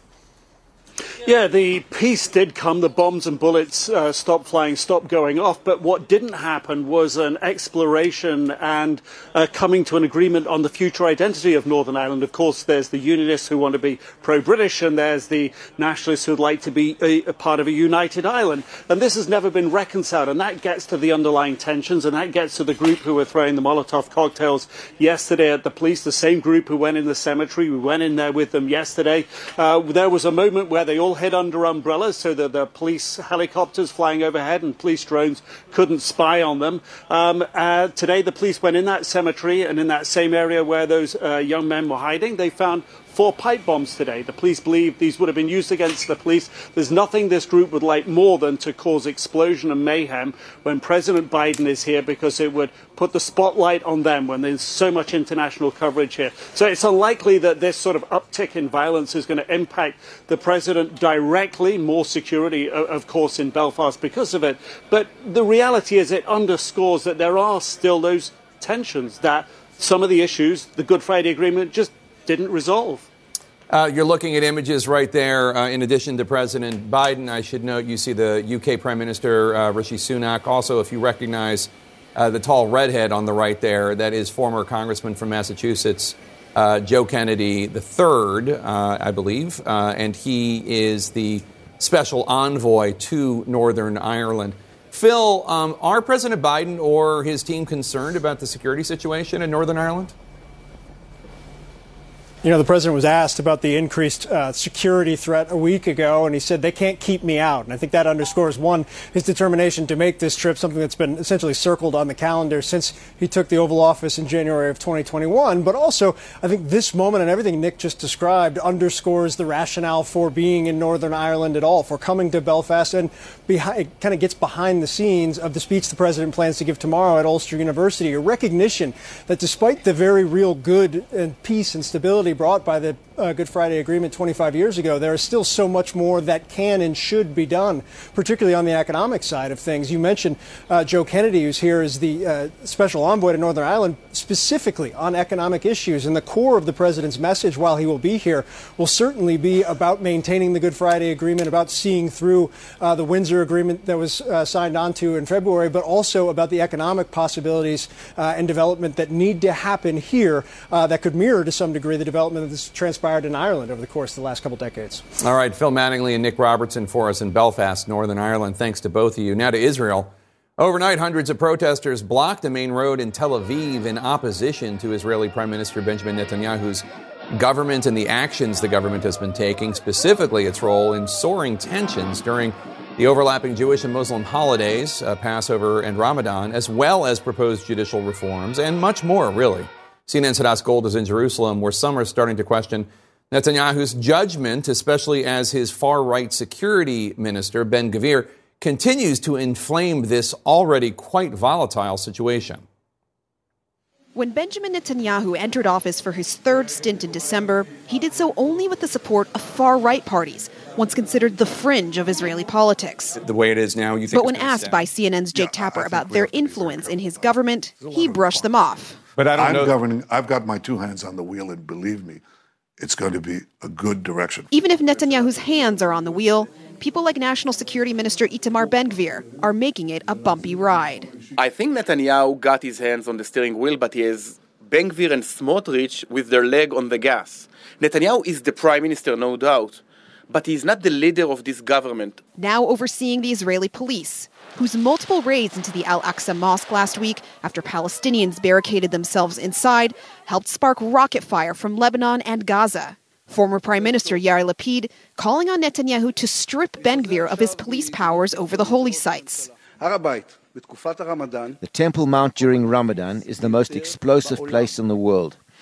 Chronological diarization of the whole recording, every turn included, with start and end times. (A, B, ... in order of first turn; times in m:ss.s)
0:01.2-1:13.1 A
1:13.7-1:40.1 B
1:42.4-2:45.0 C
2:45.2-3:22.6 B
3:24.1-3:33.1 D
3:33.1-3:34.9 B
3:34.1-3:39.0 D
3:35.3-3:38.5 E
3:39.2-3:42.2 E
3:39.2-3:39.7 B
3:42.8-3:44.5 E
3:44.5-3:51.1 D
3:51.4-4:02.2 F
4:02.4-4:19.4 D
4:21.6-4:25.4 G